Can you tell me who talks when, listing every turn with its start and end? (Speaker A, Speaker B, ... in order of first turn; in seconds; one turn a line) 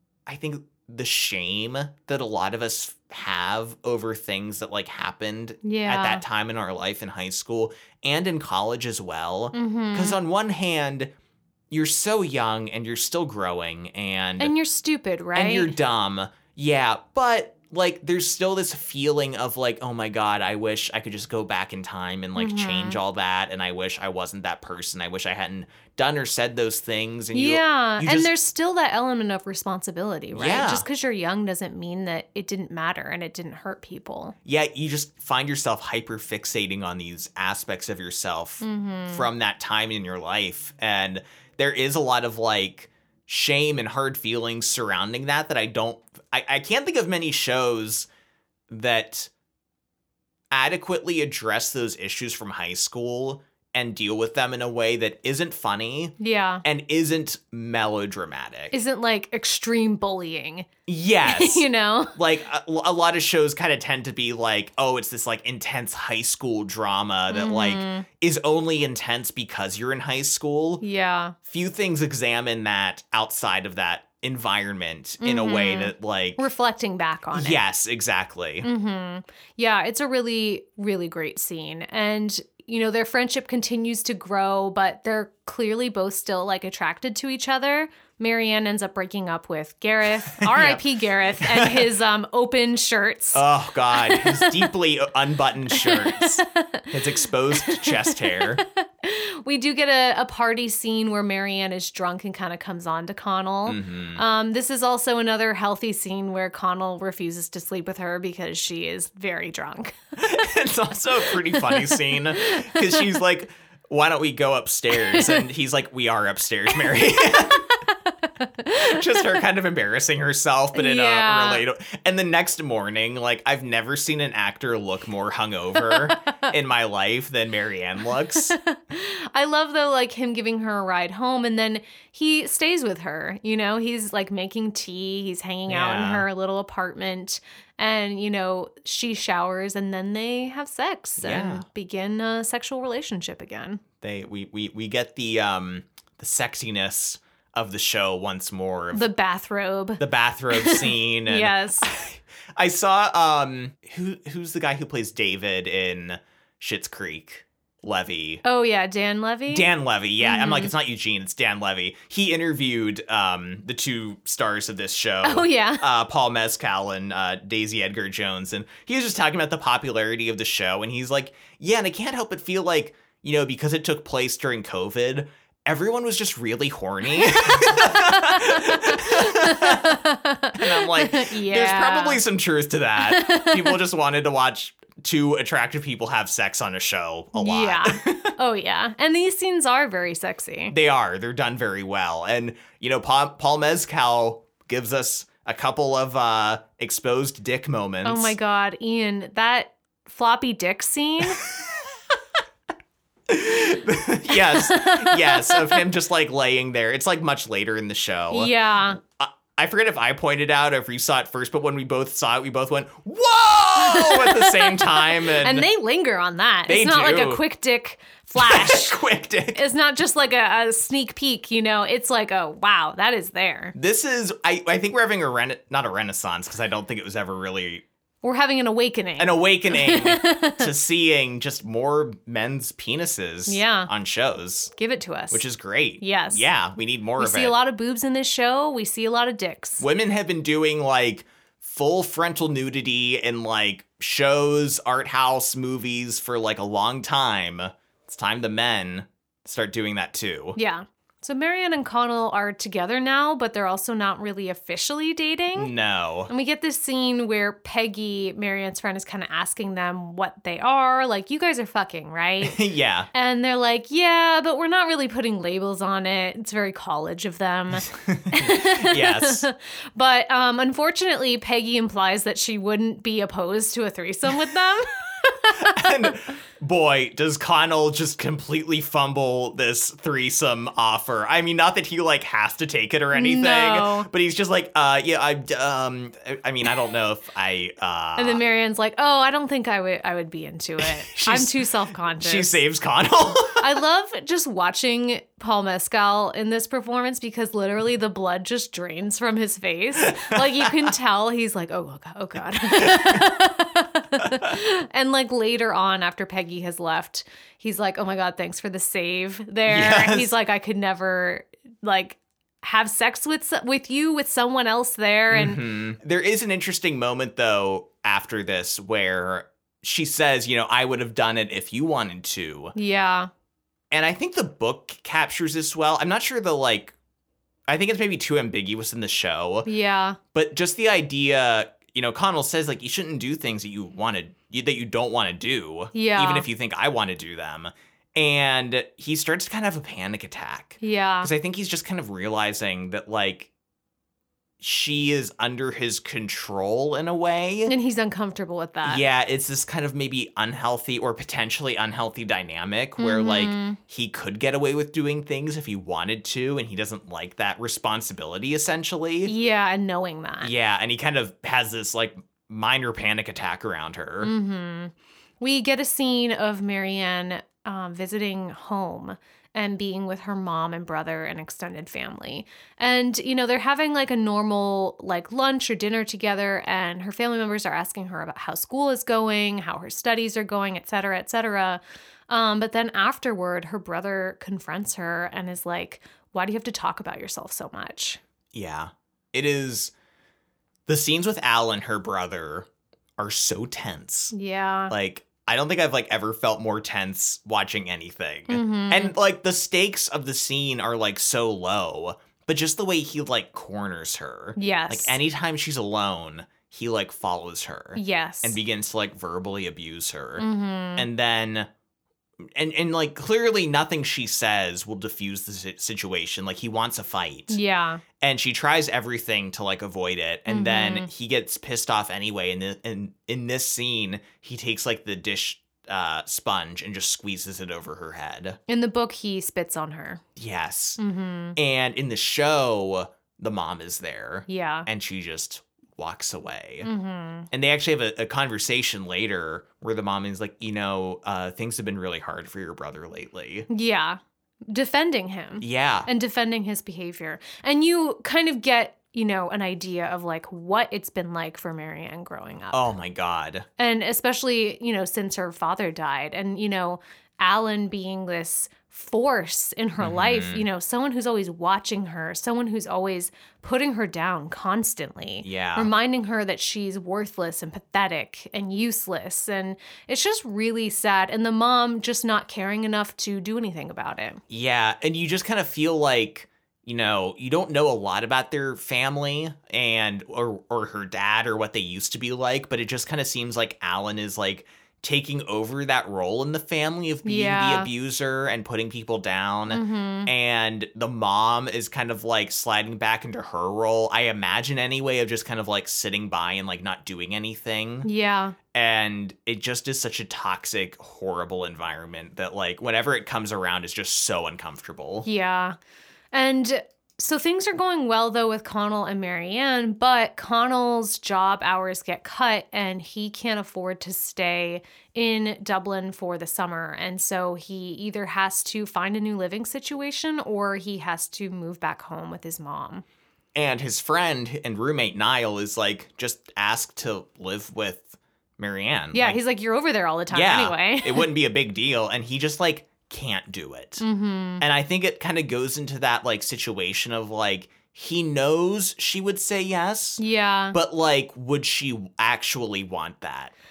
Speaker A: 0.2-11.1
Speaker B: 5.6-6.2
Speaker B: 9.5-10.2
Speaker A: 11.7-14.5
Speaker B: 14.4-15.7
Speaker A: 15.3-28.3
Speaker B: 22.3-23.0
Speaker B: 27.3-34.4
Speaker A: 30.3-30.9
Speaker A: 34.4-48.1
Speaker B: 38.6-39.3
Speaker A: 48.7-49.3
Speaker A: 50.5-58.7
Speaker B: 56.2-56.6
Speaker B: 58.7-60.7
Speaker A: 60.9-70.8
Speaker B: 61.2-62.2
Speaker B: 67.3-68.0
Speaker B: 70.8-71.3
Speaker A: 71.4-76.4
Speaker B: 75.2-77.6
Speaker A: 77.3-78.7
Speaker B: 78.6-94.7
Speaker A: 90.3-90.8
Speaker A: 91.4-91.9
Speaker A: 93.3-98.6
Speaker B: 95.7-110.5
Speaker A: 103.7-104.2
Speaker A: 110.2-117.7
Speaker B: 111.3-113.2
Speaker B: 114.9-115.5
Speaker B: 116.7-119.4
Speaker A: 118.7-128.5
Speaker B: 120.7-121.6
Speaker B: 125.8-126.3
Speaker B: 128.4-143.8
Speaker A: 135.7-136.2
Speaker A: 141.2-141.6
Speaker A: 144.0-149.1
Speaker B: 148.9-151.9
Speaker A: 150.0-158.4
Speaker B: 158.4-159.7
Speaker A: 159.5-180.0
Speaker B: 160.2-160.7
Speaker B: 165.2-165.8
Speaker B: 177.2-182.2
Speaker A: 180.5-188.3
Speaker B: 183.0-183.8
Speaker B: 187.3-190.7
Speaker A: 190.7-198.3
Speaker B: 198.0-201.4
Speaker A: 203.3-215.7
Speaker B: 204.3-205.8
Speaker B: 208.3-209.0
Speaker B: 213.8-219.0
Speaker A: 216.7-217.4
Speaker A: 218.3-219.6
Speaker B: 219.5-223.7
Speaker A: 223.7-227.8
Speaker B: 228.2-230.7
Speaker A: 229.2-234.7
Speaker B: 233.4-233.9
Speaker B: 234.8-235.4
Speaker A: 235.3-237.6
Speaker B: 236.0-236.4
Speaker B: 237.2-239.8
Speaker A: 239.8-250.6
Speaker B: 250.6-255.7
Speaker A: 255.5-256.3
Speaker B: 256.3-262.6
Speaker A: 262.4-263.1
Speaker B: 263.1-276.1
Speaker A: 267.8-269.4
Speaker A: 275.5-288.4
Speaker B: 283.1-284.1
Speaker B: 288.2-292.6
Speaker A: 290.8-291.6
Speaker A: 292.2-293.7
Speaker B: 293.5-315.6
Speaker A: 300.0-300.9
Speaker A: 302.6-303.3
Speaker A: 304.2-304.5
Speaker A: 309.6-310.3
Speaker A: 315.3-322.7
Speaker B: 322.7-323.3
Speaker A: 323.9-326.9
Speaker A: 327.7-329.7
Speaker B: 329.6-330.2
Speaker A: 330.3-343.5
Speaker B: 335.9-336.5
Speaker B: 340.8-341.3
Speaker A: 344.6-347.7
Speaker B: 347.6-349.0
Speaker A: 348.8-359.3
Speaker B: 353.0-353.8
Speaker B: 359.2-360.5
Speaker A: 360.4-364.3
Speaker B: 364.2-388.2
Speaker A: 388.5-389.9
Speaker A: 390.9-392.7
Speaker A: 393.2-394.3
Speaker B: 394.3-394.9
Speaker A: 394.9-410.4
Speaker B: 398.5-399.1
Speaker B: 404.6-405.2
Speaker B: 407.9-408.6
Speaker B: 410.4-411.1
Speaker A: 410.9-411.7
Speaker A: 412.6-417.6
Speaker B: 417.5-418.0
Speaker A: 418.2-428.6
Speaker B: 420.5-421.1
Speaker B: 428.7-430.2
Speaker A: 430.4-431.0
Speaker B: 431.0-431.6
Speaker A: 431.6-436.9
Speaker B: 434.5-434.9
Speaker B: 436.8-437.5
Speaker A: 437.5-443.7
Speaker B: 443.7-452.9
Speaker A: 445.6-446.1
Speaker A: 452.7-453.6
Speaker B: 453.8-474.4
Speaker A: 460.0-460.6
Speaker A: 465.4-465.9
Speaker A: 474.5-498.1
Speaker B: 487.2-487.9
Speaker B: 489.7-490.3
Speaker B: 498.0-498.6
Speaker A: 498.7-505.3
Speaker B: 505.2-505.8
Speaker B: 506.3-523.0
Speaker A: 523.5-529.4
Speaker B: 529.1-531.3
Speaker A: 530.3-534.0
Speaker B: 534.0-534.6
Speaker A: 534.6-540.2
Speaker B: 540.2-540.8
Speaker A: 540.7-543.5